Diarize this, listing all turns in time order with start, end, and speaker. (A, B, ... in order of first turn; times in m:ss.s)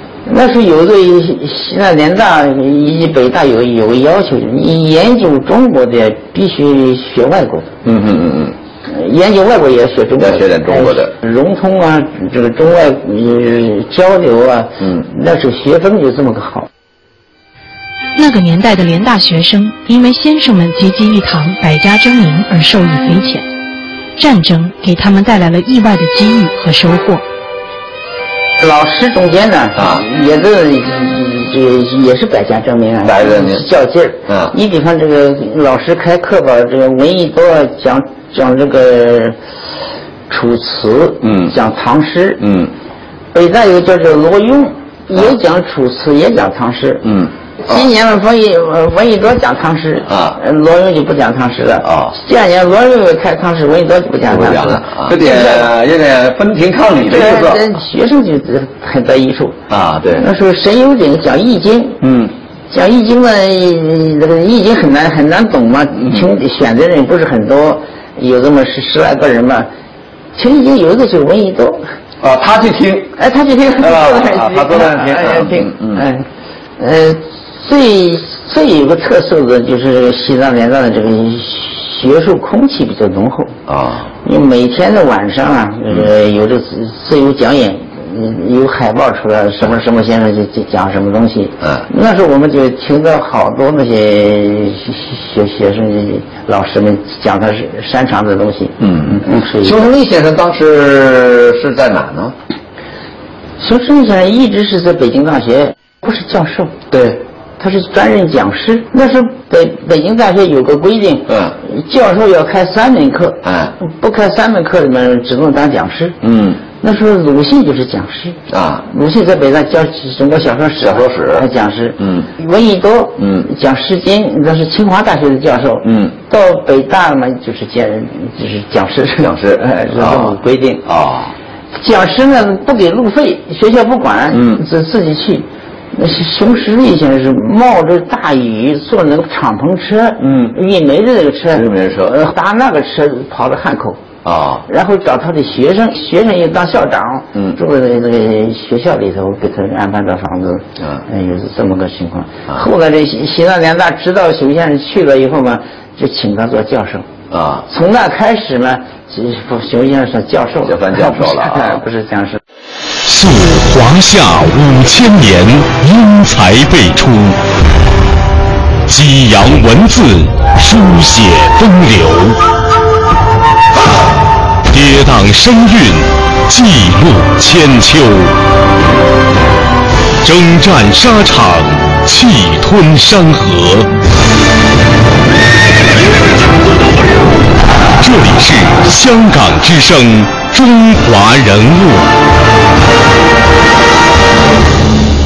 0:00.3-0:07.7 A
0:07.8-0:08.6 B
0:08.9-0:16.7 A
0:10.2-0:11.1 B
0:14.8-0:15.1 B
0:18.2-0:23.5 C
0:24.2-0:27.2 C
0:28.6-0:39.4 A
0:29.8-0:30.0 B
0:33.0-0:33.6 B
0:34.3-0:34.5 B
0:40.3-0:42.4 A
0:41.2-0:41.5 B
0:42.4-0:42.7 B
0:43.3-0:47.0 A
0:47.0-0:47.8 B
0:47.7-0:55.7 A
0:50.1-0:50.4 B
0:51.8-0:52.1 B
0:54.3-0:57.6 B
0:57.1-1:02.0 A
0:59.7-1:00.3 B
1:02.0-1:02.3 B
1:02.7-1:09.7 A
1:10.4-1:11.8 A
1:12.2-1:13.1 B
1:13.2-1:16.3 A
1:13.8-1:16.0 B
1:16.8-1:23.6 A
1:23.7-1:24.1 B
1:24.2-1:39.9 A
1:38.8-1:42.4 B
1:43.6-1:46.8 A
1:46.9-1:47.2 B
1:47.6-1:56.2 A
1:51.3-1:51.6 B
1:53.4-1:53.8 B
1:56.2-1:56.7 B
1:56.7-2:10.8 A
1:58.5-1:58.8 B
2:00.8-2:01.5 B
2:02.0-2:02.3 B
2:03.2-2:03.5 B
2:05.8-2:06.1 B
2:09.2-2:11.3 B
2:11.8-2:24.1 A
2:14.3-2:14.6 B
2:20.2-2:20.6 B
2:21.5-2:22.2 B
2:24.2-2:24.7 B
2:24.7-2:37.1 A
2:37.3-2:37.6 B
2:37.7-2:42.4 A
2:40.6-2:41.8 B
2:43.0-2:47.4 D
2:48.9-2:52.4 D
2:54.7-2:58.4 D
3:00.2-3:03.9 D
3:08.0-3:12.1 D